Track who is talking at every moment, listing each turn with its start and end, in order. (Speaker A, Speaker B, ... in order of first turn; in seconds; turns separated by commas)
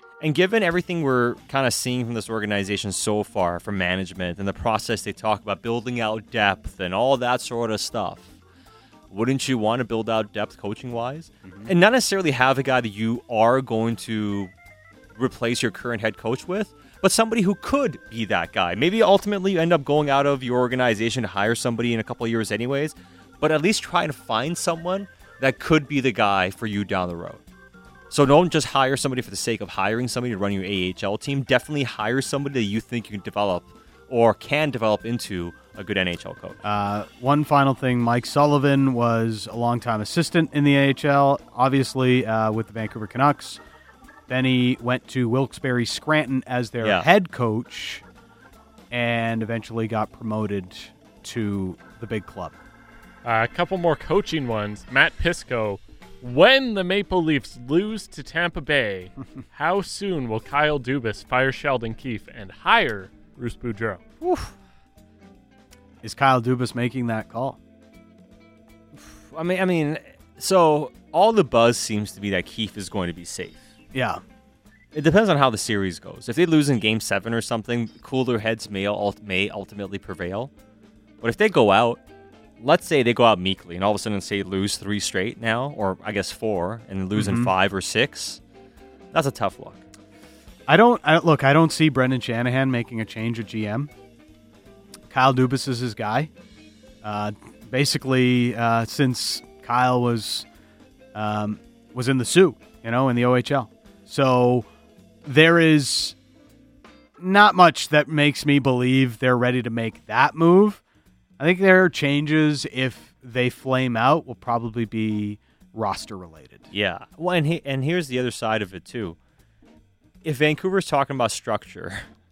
Speaker A: 0.2-8.3, Speaker A: 9.1-14.5, Speaker A: 15.2-27.4, Speaker A: 28.1-36.6, Speaker B: 36.6-43.6, Speaker B: 44.3-48.0, Speaker A: 46.8-47.1, Speaker B: 48.9-52.5, Speaker C: 53.2-64.0, Speaker A: 64.2-64.5, Speaker B: 66.0-67.6, Speaker A: 69.0-73.6, Speaker B: 73.9-74.2, Speaker A: 74.9-80.5, Speaker A: 81.2-82.0, Speaker A: 82.6-88.4, Speaker B: 87.1-87.5, Speaker A: 89.1-89.8, Speaker B: 90.7-93.9, Speaker B: 95.1-96.3, Speaker B: 97.0-100.5, Speaker B: 101.1-104.7, Speaker B: 105.2-106.2, Speaker B: 107.2-110.8, Speaker B: 111.4-116.7, Speaker A: 116.7-119.2, Speaker A: 120.2-122.0